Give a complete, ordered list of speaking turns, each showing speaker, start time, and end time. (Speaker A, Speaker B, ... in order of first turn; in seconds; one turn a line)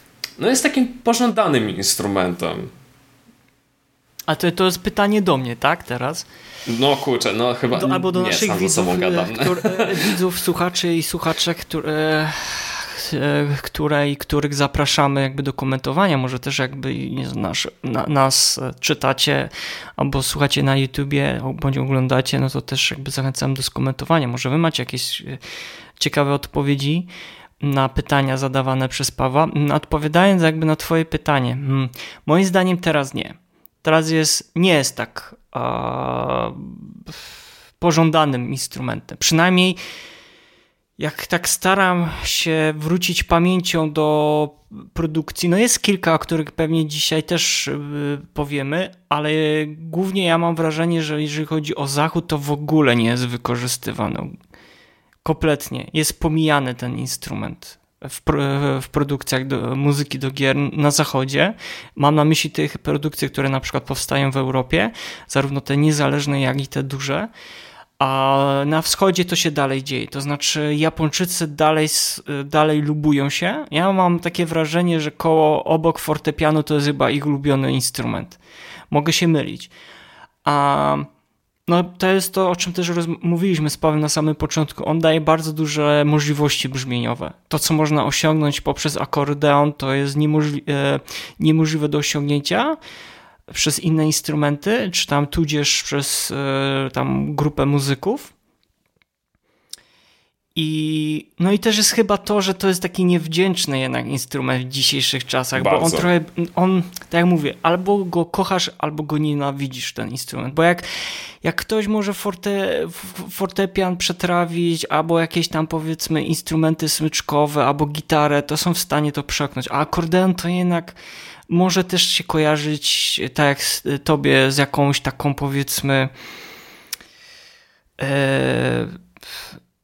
Speaker A: 0.4-2.7
Speaker B: 4.3-6.3
Speaker A: 6.7-10.1
Speaker B: 7.8-25.4
Speaker B: 26.0-27.1
Speaker B: 27.6-37.2
Speaker B: 37.8-39.8
Speaker B: 41.0-54.4
Speaker B: 55.2-67.3
Speaker B: 68.0-78.4
Speaker B: 78.9-79.7
Speaker B: 80.5-81.1
Speaker B: 81.7-92.8
Speaker B: 93.5-98.3
Speaker B: 100.5-110.9
Speaker A: 105.6-106.1
Speaker B: 111.4-121.0
Speaker B: 121.5-126.1
Speaker B: 128.0-129.0